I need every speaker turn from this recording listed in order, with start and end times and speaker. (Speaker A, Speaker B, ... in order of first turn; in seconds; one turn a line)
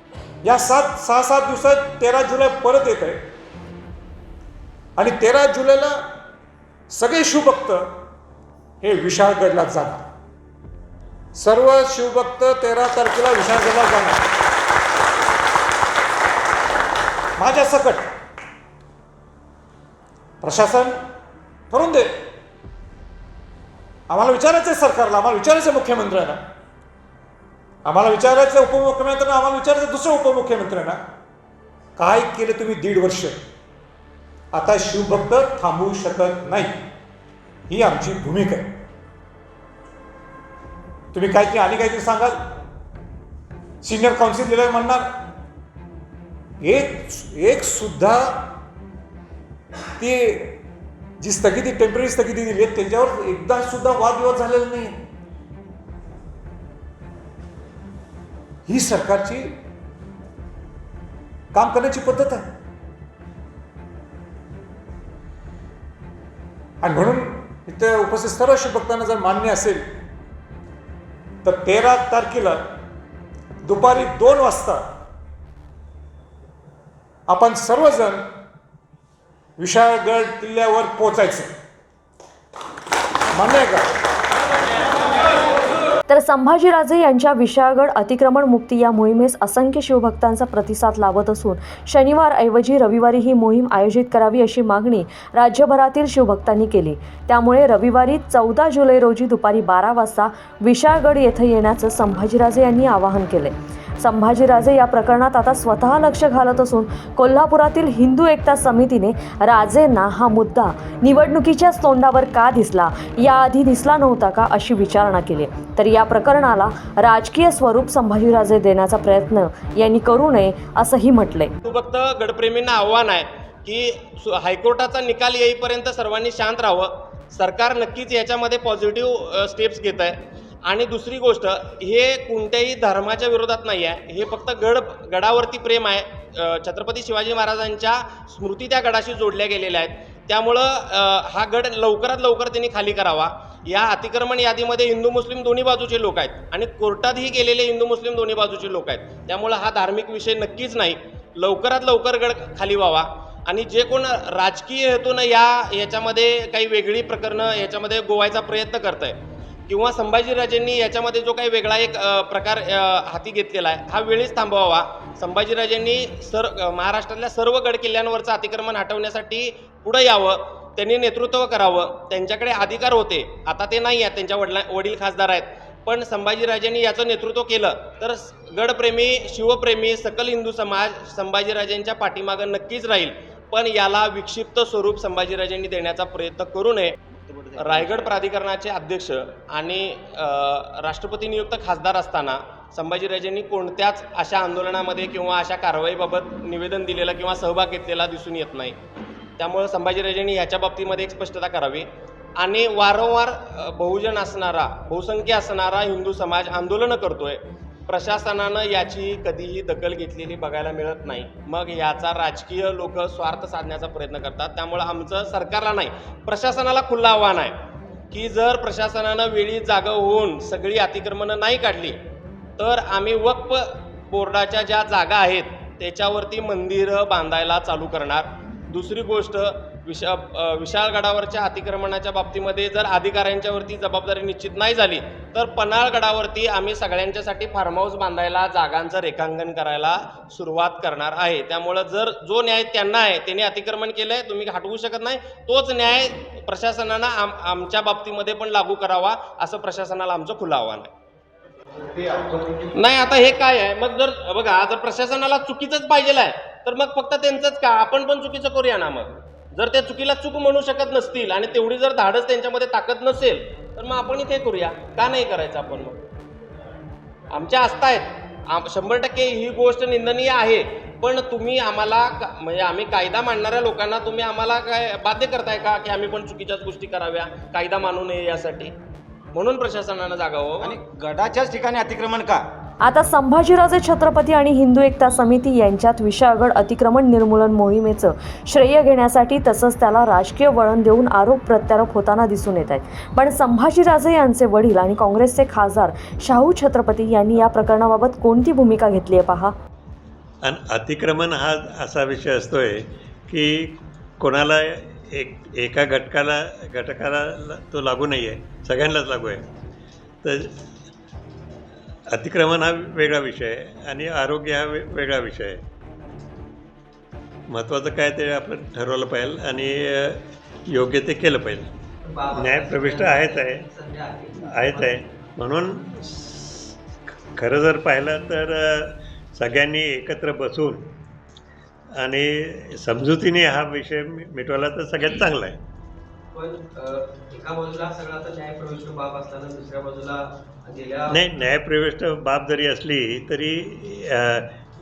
Speaker A: 0.4-3.2
Speaker A: 5.0-6.0
Speaker A: 6.9-7.9
Speaker A: 8.8-10.0
Speaker A: 11.3-14.2
Speaker A: 17.4-18.1
Speaker A: 20.4-21.0
Speaker A: 21.7-22.1
Speaker A: 24.1-26.4
Speaker A: 27.9-31.0
Speaker A: 32.0-33.4
Speaker A: 34.5-36.7
Speaker A: 37.7-38.7
Speaker A: 41.1-42.4
Speaker A: 43.8-45.0
Speaker A: 46.6-48.5
Speaker A: 50.0-50.6
Speaker A: 51.2-55.0
Speaker A: 58.7-59.5
Speaker A: 61.5-62.5
Speaker A: 66.8-69.8
Speaker A: 71.4-72.6
Speaker A: 73.6-74.8
Speaker A: 77.3-78.2
Speaker A: 79.6-81.5
Speaker A: 83.3-83.8
Speaker B: 86.1-121.5
Speaker C: 121.6-186.9
Speaker D: 187.2-188.1
Speaker C: 187.6-198.8
Speaker C: 199.4-217.6
Speaker C: 218.1-222.0
Speaker C: 222.6-250.9
Speaker E: 252.0-252.3
Speaker C: 252.7-266.0
Speaker C: 267.3-278.7
Speaker C: 279.3-280.8
Speaker D: 280.6-282.4
Speaker B: 282.8-299.5
Speaker F: 300.4-309.4
Speaker F: 310.2-310.5
Speaker F: 312.1-315.6
Speaker F: 317.5-321.7
Speaker E: 322.0-325.0
Speaker F: 322.4-323.6
Speaker F: 324.4-326.7
Speaker F: 327.4-330.8
Speaker F: 332.0-335.6
Speaker E: 336.3-341.3
Speaker F: 341.1-344.5